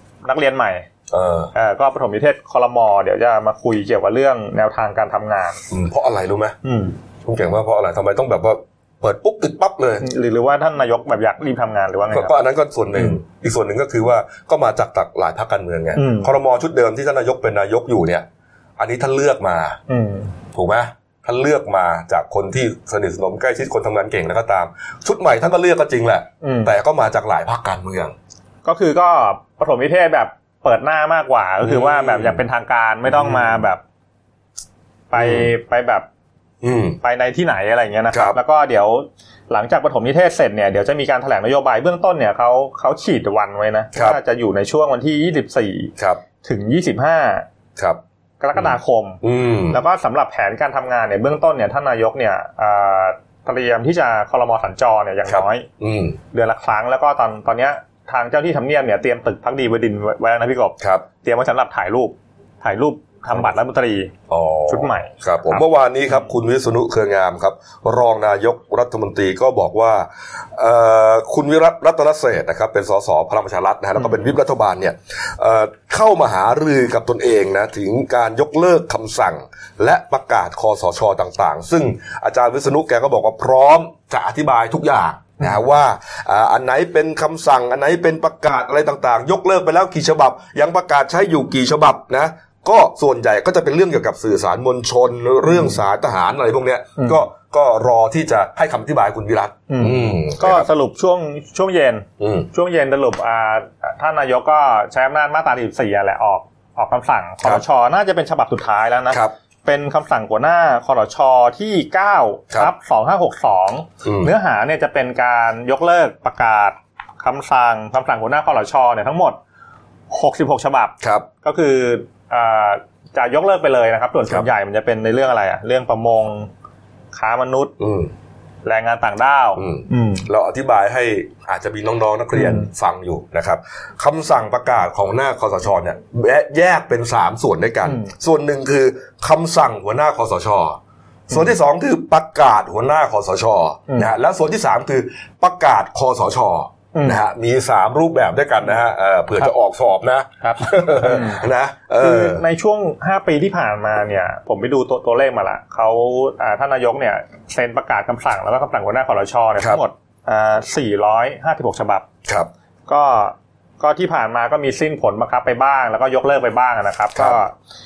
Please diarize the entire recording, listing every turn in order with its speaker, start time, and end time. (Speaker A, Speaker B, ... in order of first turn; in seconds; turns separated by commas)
Speaker A: 0.2-0.9, Speaker B: 1.1-1.5, Speaker A: 1.5-5.6, Speaker B: 5.7-6.5, Speaker A: 6.6-7.0, Speaker B: 7.2-10.1, Speaker A: 10.0-12.3, Speaker B: 12.1-18.2, Speaker A: 16.0-16.3, Speaker B: 18.8-19.8, Speaker A: 19.9-20.3, Speaker B: 20.5-28.1, Speaker A: 26.4-26.7, Speaker A: 28.6-33.8, Speaker B: 31.6-32.4, Speaker B: 33.1-33.6, Speaker A: 35.1-36.0, Speaker B: 35.1-35.5, Speaker B: 36.6-37.0, Speaker A: 37.0-47.5, Speaker B: 38.1-38.4, Speaker A: 48.4-49.2, Speaker B: 48.5-49.8, Speaker A: 49.7-55.7, Speaker B: 55.2-56.2, Speaker A: 56.3-64.1, Speaker B: 60.8-61.0, Speaker B: 64.3-100.7, Speaker A: 64.7-66.2, Speaker A: 95.5-95.8, Speaker A: 99.7-119.4, Speaker B: 102.2-102.5, Speaker B: 114.0-114.3, Speaker A: 120.1-126.5, Speaker B: 121.0-121.3, Speaker A: 127.1-127.7, Speaker B: 127.8-128.1, Speaker A: 128.6-130.3, Speaker B: 129.6-152.4, Speaker A: 132.3-132.7, Speaker A: 146.9-147.2, Speaker A: 150.8-151.4, Speaker A: 152.0-162.1, Speaker A: 162.9-167.5